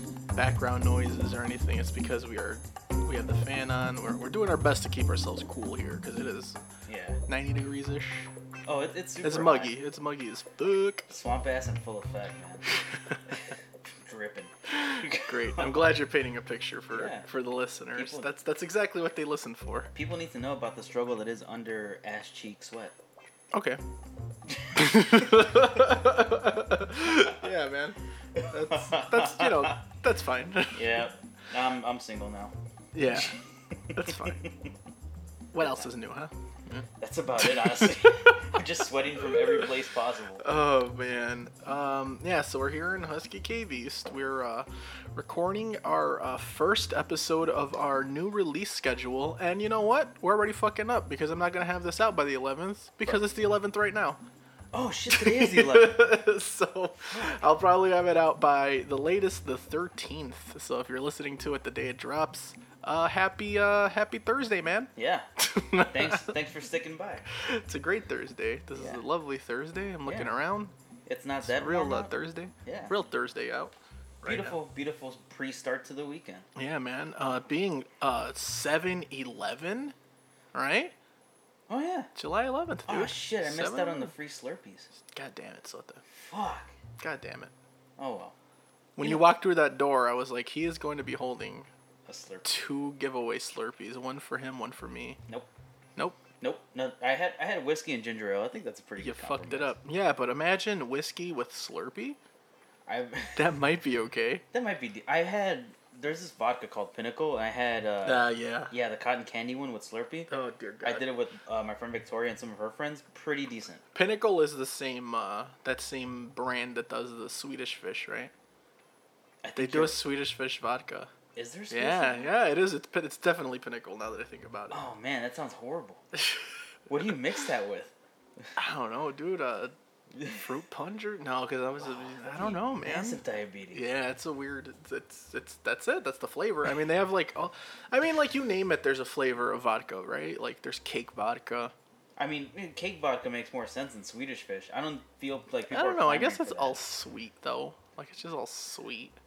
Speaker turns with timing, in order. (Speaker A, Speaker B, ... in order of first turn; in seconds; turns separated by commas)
Speaker A: 0.3-6.6, Speaker B: 6.8-7.2, Speaker A: 7.3-8.3, Speaker B: 8.7-9.7, Speaker A: 9.2-11.1, Speaker B: 11.1-12.7, Speaker B: 13.3-15.7, Speaker A: 14.7-19.9, Speaker B: 16.9-17.3, Speaker B: 17.9-18.3, Speaker B: 19.9-22.9, Speaker A: 23.5-23.8, Speaker B: 24.5-25.4, Speaker A: 24.8-28.0, Speaker B: 28.4-29.8, Speaker A: 28.5-30.9, Speaker B: 30.7-32.5, Speaker A: 32.9-33.4, Speaker B: 33.1-34.7, Speaker A: 34.0-34.4, Speaker A: 35.5-36.9, Speaker B: 35.6-35.9, Speaker B: 37.0-40.4, Speaker A: 37.4-38.4, Speaker A: 39.2-39.7, Speaker A: 40.4-54.2, Speaker B: 54.7-56.0, Speaker A: 55.1-66.3, Speaker B: 57.1-57.6, Speaker B: 65.0-65.3, Speaker B: 65.8-67.3, Speaker A: 67.4-70.7, Speaker B: 68.8-69.0, Speaker B: 70.0-70.3, Speaker B: 71.1-72.1, Speaker A: 71.4-74.6, Speaker B: 72.7-72.9, Speaker B: 74.2-76.5, Speaker A: 76.6-80.0, Speaker A: 80.5-80.9, Speaker B: 81.7-82.1, Speaker A: 82.2-84.1, Speaker B: 82.9-84.9, Speaker A: 85.1-86.0, Speaker B: 86.1-86.8, Speaker A: 87.0-87.5, Speaker B: 88.0-88.3, Speaker A: 89.0-91.7, Speaker B: 89.0-89.2, Speaker B: 92.1-92.5, Speaker A: 92.5-95.2, Speaker B: 96.4-99.7, Speaker A: 99.0-102.2, Speaker B: 102.9-103.4, Speaker A: 103.4-104.4, Speaker B: 104.5-110.3, Speaker A: 108.0-108.7, Speaker A: 110.3-111.1, Speaker B: 110.8-113.8, Speaker A: 113.9-118.3, Speaker B: 119.4-120.0, Speaker A: 119.6-121.1, Speaker B: 121.3-122.3, Speaker A: 121.7-124.8, Speaker B: 124.7-126.0, Speaker B: 126.9-128.5, Speaker A: 128.6-133.2, Speaker B: 131.8-133.8, Speaker A: 133.7-141.7, Speaker B: 142.2-146.8, Speaker A: 145.7-149.2